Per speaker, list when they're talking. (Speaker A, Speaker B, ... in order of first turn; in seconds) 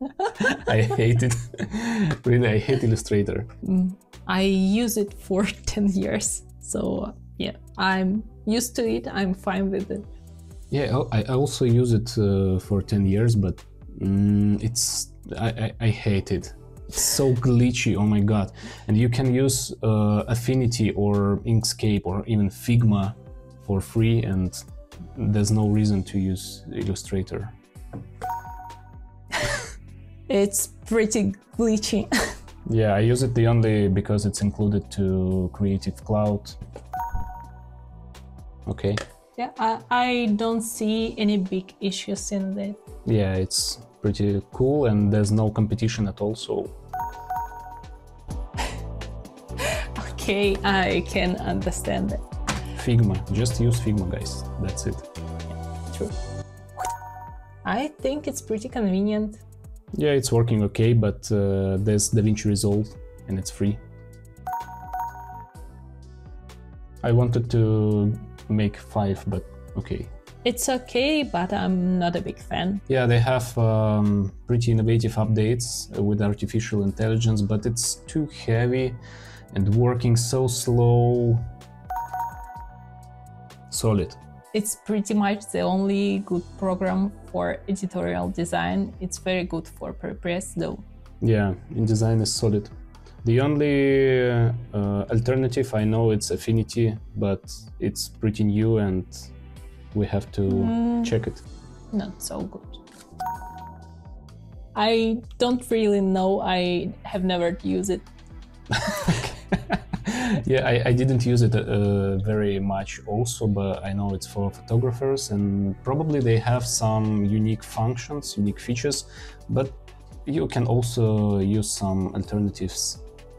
Speaker A: 0.4-3.5, 10.7-24.6, 25.1-27.6, 32.6-36.6, 38.6-39.0, 43.0-46.7, 52.7-55.0, 59.9-63.8, 67.0-70.1, 72.9-79.0, 79.5-81.5, 83.7-84.2, 91.2-99.3, 99.9-101.4, 108.7-123.0
Speaker B: 3.6-10.1, 30.3-32.3, 39.4-42.8, 49.6-52.2, 57.6-59.4, 70.4-72.8, 84.5-90.8, 100.5-101.1, 101.9-102.8, 104.7-108.1